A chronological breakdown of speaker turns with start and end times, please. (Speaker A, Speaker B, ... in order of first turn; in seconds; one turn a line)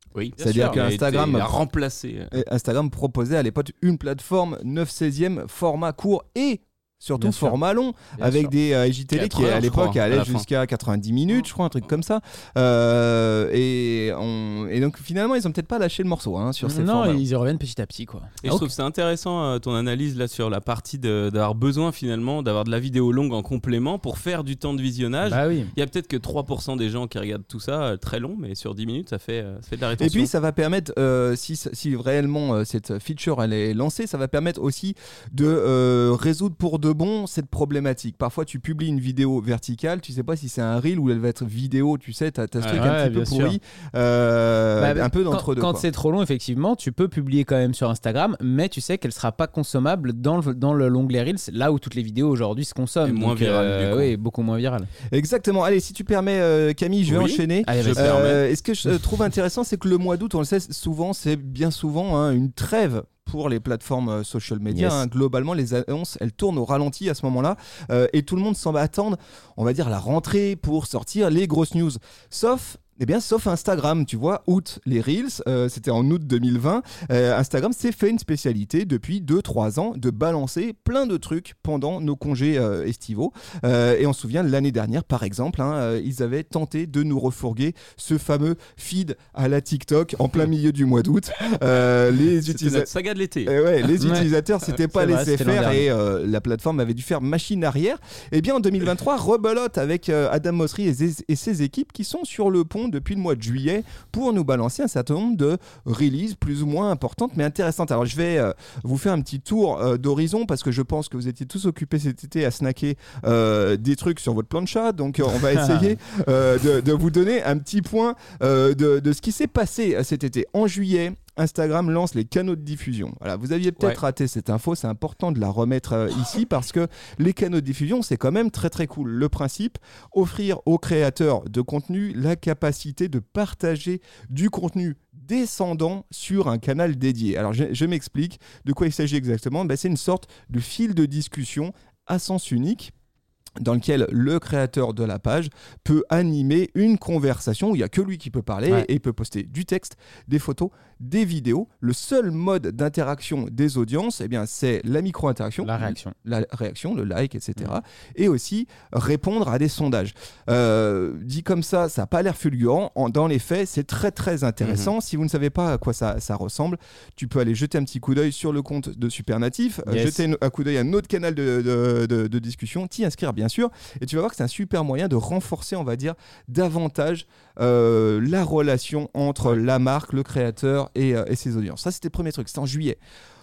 Speaker A: 0.1-2.4
Speaker B: 0.4-1.5
Speaker C: 0.4-0.8
Speaker B: 2.3-17.2
Speaker C: 7.2-7.6
Speaker C: 8.2-8.5
Speaker A: 9.1-10.4
Speaker C: 16.6-18.7
Speaker A: 18.4-30.3
Speaker C: 25.2-25.7
Speaker B: 30.0-45.9
Speaker A: 42.6-42.8
Speaker C: 42.7-43.6
Speaker C: 44.8-54.9
Speaker A: 53.0-54.1
Speaker B: 55.1-92.9
Speaker A: 57.0-58.4
Speaker C: 57.6-58.2
Speaker C: 64.7-65.0
Speaker A: 92.5-94.1
Speaker B: 93.4-142.9
Speaker C: 94.0-94.3
Speaker C: 94.9-95.8
Speaker C: 115.5-115.9
Speaker B: 143.6-183.0
Speaker C: 155.6-156.2
Speaker A: 164.6-164.9
Speaker C: 169.8-170.2